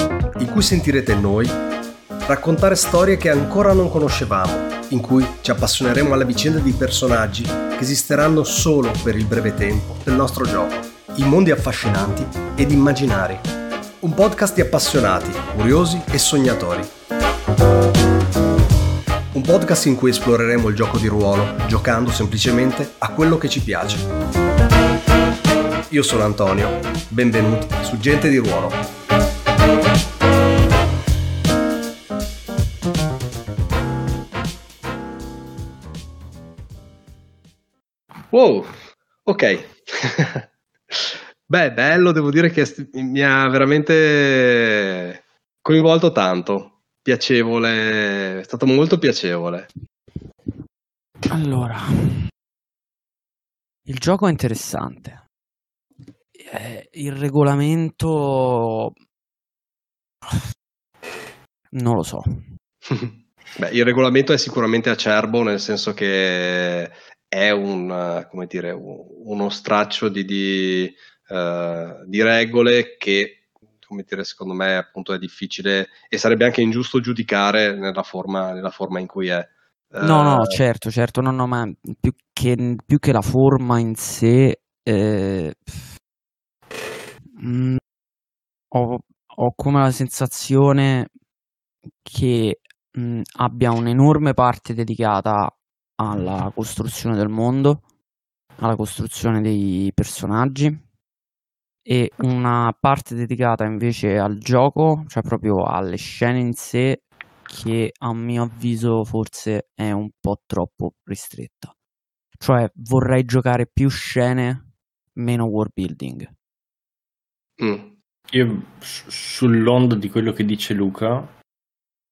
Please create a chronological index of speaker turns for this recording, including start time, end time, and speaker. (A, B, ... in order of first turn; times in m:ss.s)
0:00.4-0:01.5 A
0:02.3-0:13.5 A
0:14.0-0:16.9 A
0:19.3-0:24.1 A
0:25.9-0:28.8 A
0:38.3-0:49.7 A
0:51.3-0:52.2 B
0:53.8-0:55.2 B
0:56.4-0:58.9 B
1:01.7-1:02.4 B
1:02.9-1:20.6 A
1:20.0-1:25.8 B
1:27.4-1:27.8 B
1:28.7-1:31.1 B
1:32.0-1:37.8 B
1:38.6-1:40.8 B
1:41.8-1:51.7 B
1:52.4-1:56.3 B
1:57.6-1:57.9 A
1:58.3-2:01.3 C